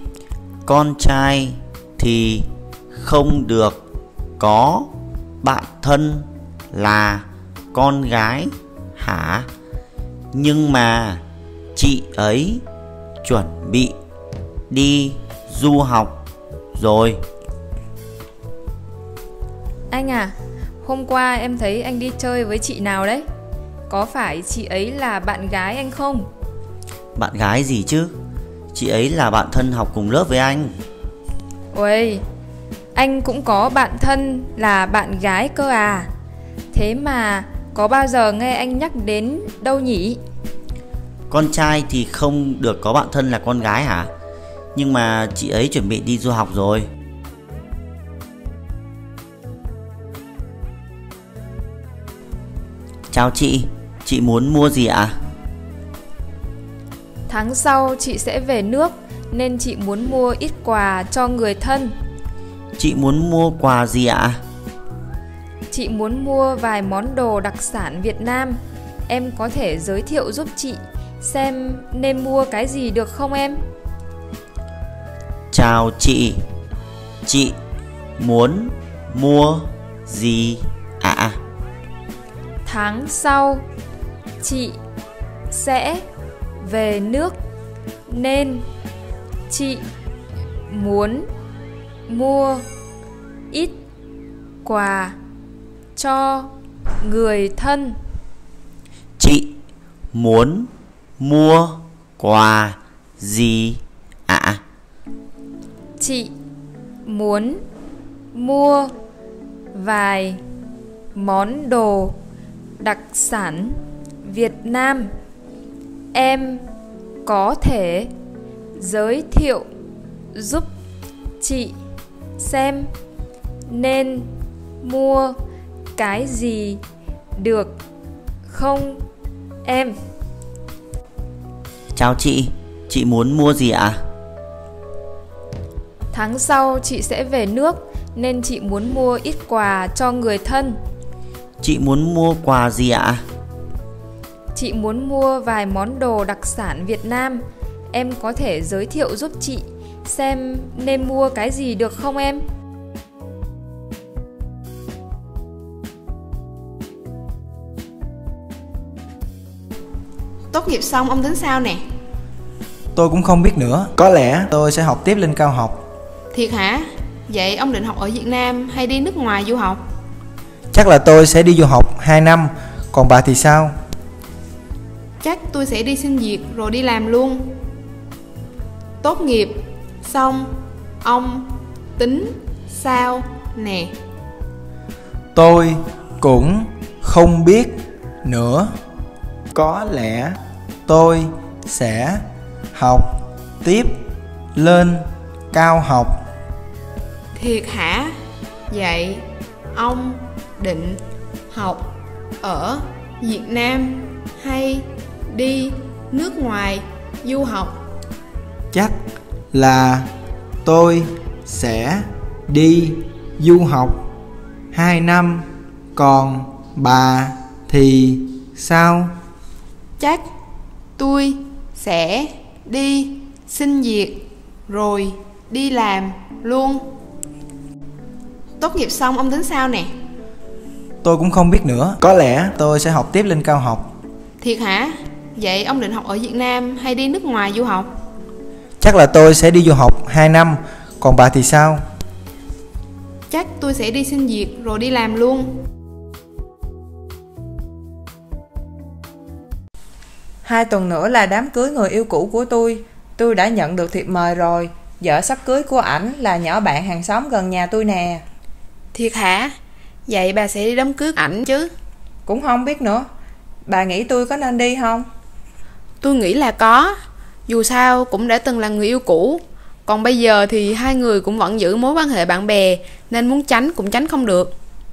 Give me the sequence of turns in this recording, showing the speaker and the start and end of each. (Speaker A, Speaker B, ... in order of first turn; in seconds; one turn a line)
Speaker A: 0.7-3.8
Speaker A: 4.4-4.9
Speaker A: 5.4-9.5
Speaker A: 10.3-11.2
Speaker A: 11.8-12.6
Speaker A: 13.2-13.9
Speaker A: 14.7-16.2
Speaker A: 16.8-17.2
Speaker B: 19.9-23.2
Speaker B: 23.9-26.3
Speaker A: 27.2-28.1
Speaker A: 28.7-30.8
Speaker B: 31.7-32.2
Speaker B: 33.0-36.1
Speaker B: 36.7-40.2
Speaker A: 41.3-44.1
Speaker A: 44.8-46.9
Speaker A: 53.1-55.2
Speaker B: 57.3-61.9
Speaker A: 62.8-64.4
Speaker B: 65.7-73.6
Speaker A: 75.5-76.4
Speaker A: 77.3-77.5
Speaker A: 78.2-81.4
Speaker B: 82.7-83.7
Speaker B: 84.4-84.8
Speaker B: 85.5-86.0
Speaker B: 86.6-87.3
Speaker B: 88.1-88.7
Speaker B: 89.5-89.8
Speaker B: 90.7-91.3
Speaker B: 92.1-92.7
Speaker B: 93.5-93.8
Speaker B: 94.6-95.2
Speaker B: 96.0-98.0
Speaker A: 99.2-99.5
Speaker A: 100.1-100.7
Speaker A: 101.2-104.6
Speaker B: 106.0-106.3
Speaker B: 107.0-107.6
Speaker B: 108.3-108.9
Speaker B: 109.7-110.4
Speaker B: 111.2-112.2
Speaker B: 112.8-115.1
Speaker B: 116.1-116.6
Speaker B: 117.2-118.1
Speaker B: 118.8-119.7
Speaker B: 120.3-120.7
Speaker B: 121.4-121.8
Speaker B: 122.4-122.9
Speaker B: 123.7-125.3
Speaker B: 126.0-126.8
Speaker B: 127.4-127.8
Speaker B: 128.5-129.0
Speaker B: 129.7-130.0
Speaker A: 131.9-134.0
Speaker B: 136.1-140.8
Speaker A: 141.6-143.2
Speaker B: 144.5-152.4
Speaker C: 160.5-161.8
Speaker D: 162.9-165.8
Speaker C: 166.3-169.8
Speaker D: 170.7-173.7
Speaker C: 175.2-177.6
Speaker C: 179.0-183.9
Speaker D: 185.3-188.7
Speaker D: 189.5-192.2
Speaker D: 192.7-194.0
Speaker D: 194.6-196.2
Speaker C: 197.3-198.1
Speaker C: 198.7-201.0
Speaker C: 201.5-201.9
Speaker C: 202.4-207.8
Speaker D: 209.5-210.1
Speaker D: 210.7-214.1
Speaker D: 214.7-219.2
Speaker C: 220.0-220.2
Speaker C: 221.0-226.8
Speaker C: 228.6-229.9
Speaker D: 231.0-233.9
Speaker C: 234.4-237.9
Speaker D: 238.8-241.8
Speaker C: 243.3-245.5
Speaker E: 250.4-258.2
Speaker C: 258.9-259.5
Speaker C: 260.1-261.7
Speaker E: 262.3-263.1
Speaker E: 263.7-265.1
Speaker C: 266.0-266.9
Speaker C: 267.5-274.5